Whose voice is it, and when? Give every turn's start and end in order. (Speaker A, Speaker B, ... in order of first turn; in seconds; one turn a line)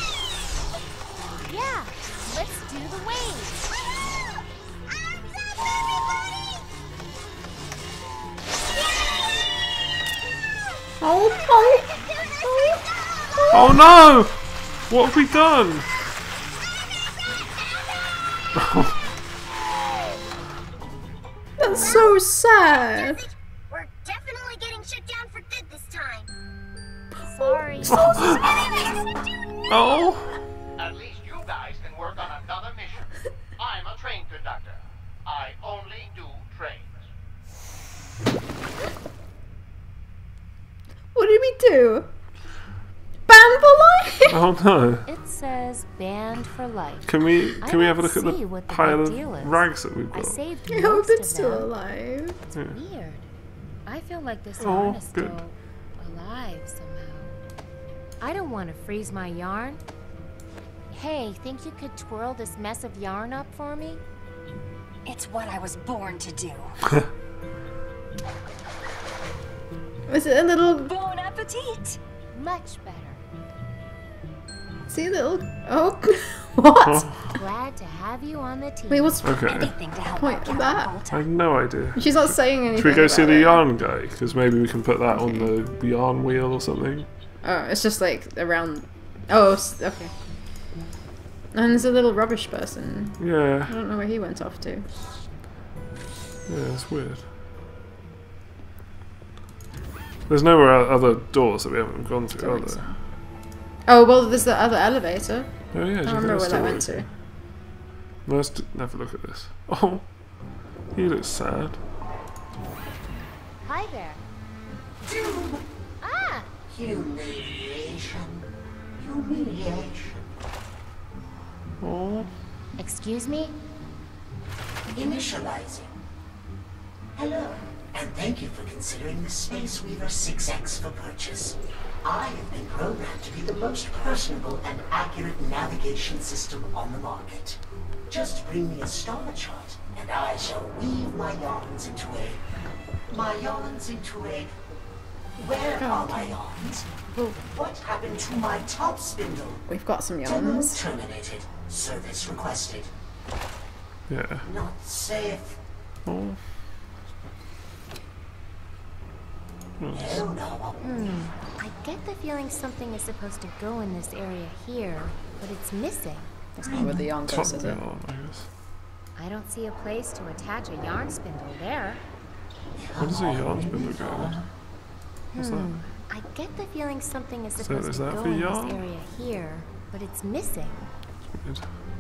Speaker A: 1.5-3.6
Speaker B: 3.7-6.7
Speaker B: 8.7-9.6
Speaker C: 11.0-11.9
Speaker B: 11.4-13.6
Speaker C: 13.4-13.8
Speaker D: 13.5-15.9
Speaker D: 18.6-18.9
Speaker C: 21.6-23.2
Speaker B: 21.8-22.0
Speaker B: 22.6-26.3
Speaker A: 27.2-28.4
Speaker D: 27.9-28.7
Speaker B: 27.9-30.1
Speaker D: 29.7-30.4
Speaker E: 30.8-37.1
Speaker C: 41.1-42.1
Speaker C: 43.3-44.5
Speaker D: 44.3-45.0
Speaker A: 45.1-51.7
Speaker D: 47.1-50.4
Speaker C: 50.7-52.4
Speaker A: 52.7-53.3
Speaker A: 53.9-57.4
Speaker D: 54.6-55.4
Speaker A: 58.2-59.8
Speaker A: 60.9-64.0
Speaker F: 65.0-66.8
Speaker C: 70.1-70.9
Speaker F: 70.8-72.0
Speaker A: 72.3-73.2
Speaker C: 74.9-77.1
Speaker D: 76.8-77.2
Speaker A: 77.3-79.1
Speaker C: 78.9-79.3
Speaker D: 79.2-79.7
Speaker F: 79.5-81.2
Speaker C: 80.2-81.0
Speaker D: 81.1-87.1
Speaker C: 82.0-83.6
Speaker C: 85.1-85.5
Speaker C: 87.4-90.1
Speaker C: 91.5-94.9
Speaker D: 93.2-93.8
Speaker D: 96.5-97.3
Speaker D: 100.3-103.0
Speaker C: 102.4-103.0
Speaker C: 103.9-107.1
Speaker D: 105.7-107.1
Speaker D: 108.2-111.8
Speaker A: 113.6-114.2
Speaker G: 115.0-115.6
Speaker A: 116.0-116.5
Speaker G: 116.7-120.3
Speaker D: 121.8-122.3
Speaker A: 122.8-123.5
Speaker G: 124.9-125.9
Speaker G: 127.2-142.4
Speaker G: 143.1-144.5
Speaker G: 145.4-149.7
Speaker C: 145.8-146.3
Speaker C: 149.7-150.8
Speaker G: 150.2-152.9
Speaker D: 154.1-154.5
Speaker G: 154.4-155.6
Speaker D: 156.1-156.4
Speaker D: 159.8-160.3
Speaker G: 159.9-160.8
Speaker A: 160.8-166.3
Speaker C: 166.6-167.8
Speaker G: 166.6-166.9
Speaker D: 167.2-168.5
Speaker A: 169.2-172.0
Speaker G: 172.8-174.4
Speaker D: 173.0-174.4
Speaker A: 175.3-180.9
Speaker D: 175.4-175.7
Speaker D: 177.6-178.8
Speaker D: 181.4-181.7